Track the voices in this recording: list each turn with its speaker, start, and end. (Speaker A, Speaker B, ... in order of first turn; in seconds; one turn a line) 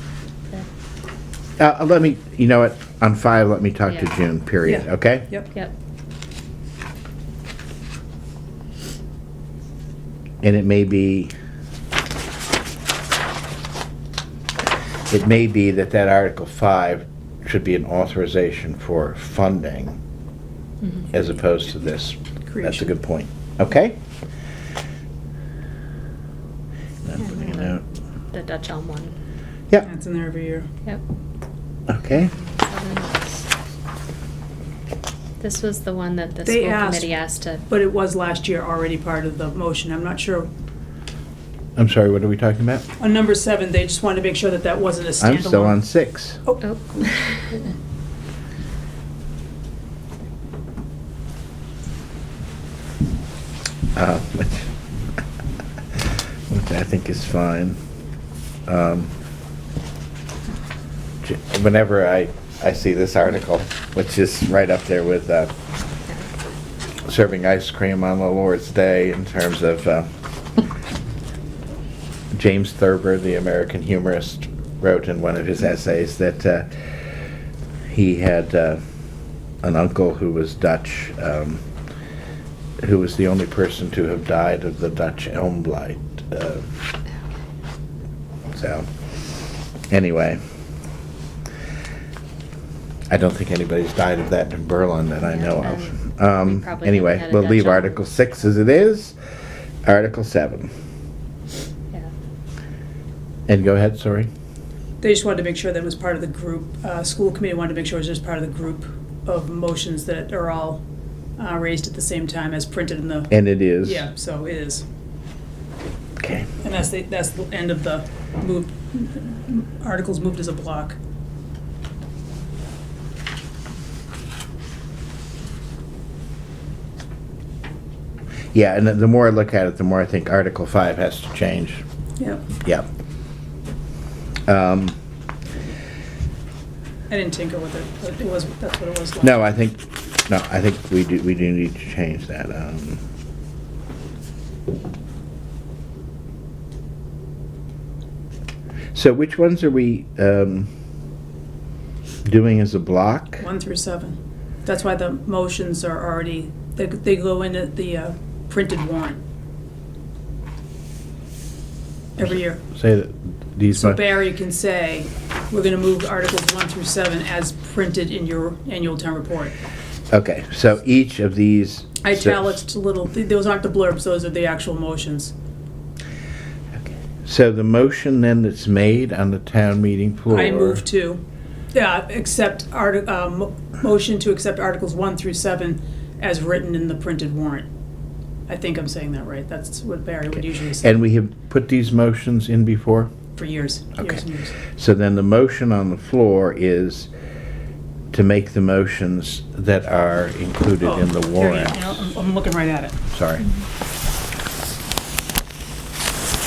Speaker A: 1.6-5.3
Speaker B: 4.7-5.5
Speaker A: 10.4-11.3
Speaker A: 15.1-20.0
Speaker C: 20.8-21.1
Speaker A: 21.1-24.0
Speaker B: 22.5-22.9
Speaker A: 27.1-27.8
Speaker C: 27.2-27.8
Speaker C: 28.3-29.1
Speaker B: 29.8-30.7
Speaker A: 31.9-32.3
Speaker C: 32.5-33.5
Speaker C: 35.4-37.6
Speaker B: 36.4-37.1
Speaker B: 37.7-40.5
Speaker A: 41.8-42.9
Speaker B: 43.0-45.8
Speaker A: 45.2-46.4
Speaker C: 46.6-47.5
Speaker A: 54.0-54.7
Speaker A: 56.0-57.8
Speaker A: 58.7-59.1
Speaker A: 61.2-65.5
Speaker A: 67.1-70.1
Speaker A: 72.3-76.7
Speaker A: 77.9-78.8
Speaker A: 79.6-81.6
Speaker A: 82.8-86.7
Speaker A: 88.5-88.9
Speaker A: 89.9-90.4
Speaker A: 93.1-99.2
Speaker C: 95.2-98.3
Speaker A: 99.9-100.7
Speaker A: 103.5-104.3
Speaker B: 105.0-110.8
Speaker B: 111.4-114.8
Speaker A: 113.3-114.1
Speaker A: 116.2-116.5
Speaker B: 116.6-121.0
Speaker A: 128.5-131.8
Speaker B: 132.2-132.4
Speaker A: 134.5-135.0
Speaker B: 137.1-139.4
Speaker A: 139.2-143.0
Speaker A: 148.9-150.7
Speaker A: 152.2-153.4
Speaker B: 153.4-159.2
Speaker B: 162.2-162.6
Speaker A: 162.2-164.0
Speaker B: 163.8-169.5
Speaker A: 170.1-172.6
Speaker B: 172.0-175.3
Speaker A: 177.2-180.8
Speaker B: 180.3-181.2
Speaker B: 181.7-187.7
Speaker B: 188.5-190.9
Speaker A: 190.8-193.1
Speaker B: 193.3-194.5
Speaker A: 194.8-197.1
Speaker A: 198.1-202.0
Speaker B: 200.8-202.9
Speaker A: 203.1-203.5